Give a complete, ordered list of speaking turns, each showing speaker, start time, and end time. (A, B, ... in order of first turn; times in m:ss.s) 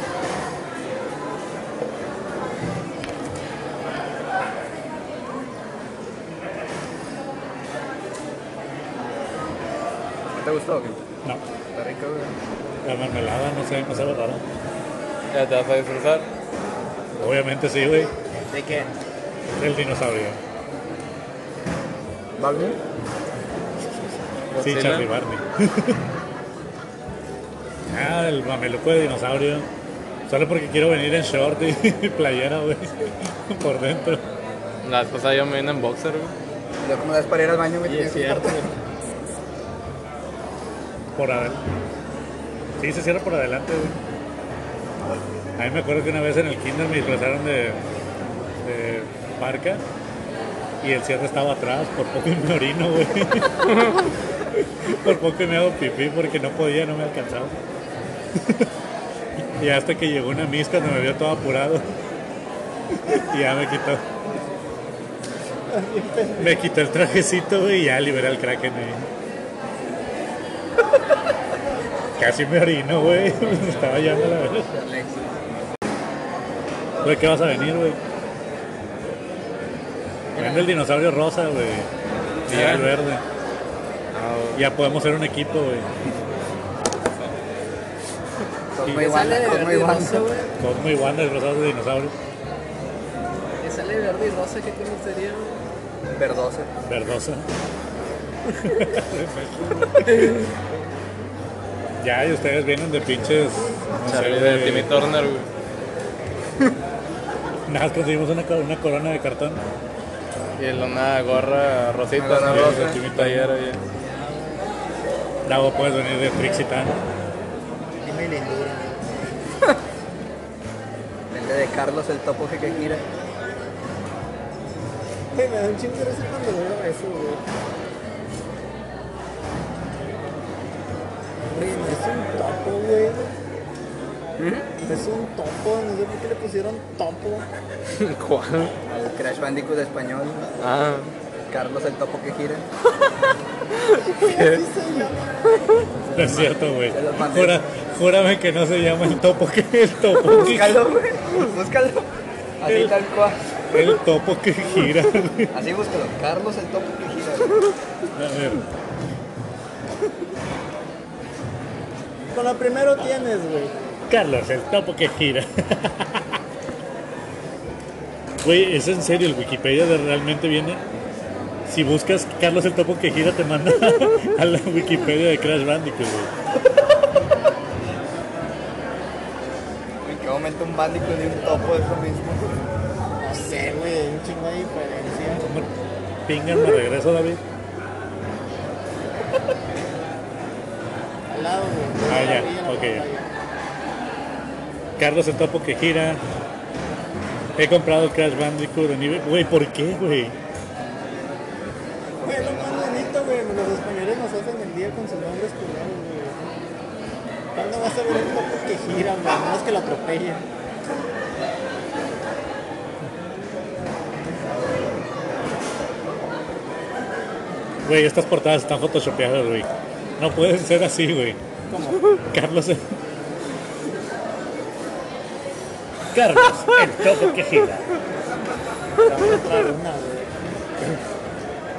0:10.3-0:11.0 A
0:11.7-0:12.3 A
0:12.8-0:14.4 B
0:15.3-0:16.3 C
0:17.2-0:18.1 B
0:18.5-0:18.9 D
0:19.6-0:20.4 B
0:22.4-0:22.8 A
0:23.8-0:26.0 B
0:24.5-0:25.1 C
0:27.9-0:29.7 B
0:30.3-0:34.2 B
0:34.8-0:36.3 C
0:36.8-0:38.6 A
0:37.8-0:38.7 D
0:41.2-0:41.6 B
0:42.8-0:44.0 B
0:45.6-0:47.8 B
0:48.6-0:49.8 B
0:50.8-0:53.8 B
0:54.8-0:57.6 B
0:58.4-0:58.7 B
0:59.6-1:01.9 B
1:03.1-1:04.0 B
1:05.7-1:06.6 E
1:06.4-1:09.1 B
1:12.2-1:14.7 B
1:17.0-1:18.0 B
1:20.4-1:20.7 D
1:20.4-1:21.9 B
1:22.5-1:23.2 B
1:22.5-1:23.0 C
1:24.1-1:24.6 C
1:24.6-1:25.9 B
1:28.7-1:30.3 A
1:28.9-1:30.5 D
1:30.6-1:32.2 B
1:33.6-1:35.6 D
1:36.1-1:36.7 A
1:36.8-1:37.5 B
1:38.7-1:40.3 B
1:40.0-1:40.5 D
1:42.0-1:44.9 B
1:44.0-1:45.5 C
1:47.7-1:49.6 B
1:50.6-1:53.8 C
1:52.2-1:53.0 A
1:52.4-1:53.5 B
1:55.4-1:57.0 B
1:58.0-1:59.1 E
2:01.3-2:03.0 A
2:05.3-2:07.4 E
2:11.5-2:13.4 E
2:14.4-2:14.7 A
2:14.8-2:17.5 E
2:17.9-2:18.7 C
2:18.9-2:20.5 A
2:20.6-2:21.1 C
2:21.5-2:22.7 A
2:24.0-2:25.7 E
2:24.2-2:24.6 C
2:26.1-2:27.6 A
2:26.1-2:30.9 B
2:30.4-2:32.1 A
2:32.6-2:33.4 A
2:32.7-2:33.0 B
2:33.7-2:35.5 B
2:35.5-2:37.6 A
2:38.2-2:38.6 B
2:42.3-2:43.7 E
2:44.1-2:46.4 B
2:48.4-2:50.8 B
2:51.7-2:56.3 B
3:00.0-3:02.6 A
3:03.2-3:05.5 E
3:05.4-3:05.7 B
3:06.3-3:07.4 B
3:11.3-3:13.3 E
3:12.1-3:13.0 B
3:15.0-3:16.2 B
3:17.6-3:20.4 B
3:22.2-3:23.2 A
3:22.2-3:26.4 E
3:27.6-3:30.5 E
3:37.8-3:41.4 B
3:41.7-3:42.0 E
3:42.3-3:42.9 B
3:46.1-3:47.9 B
3:49.0-3:50.4 E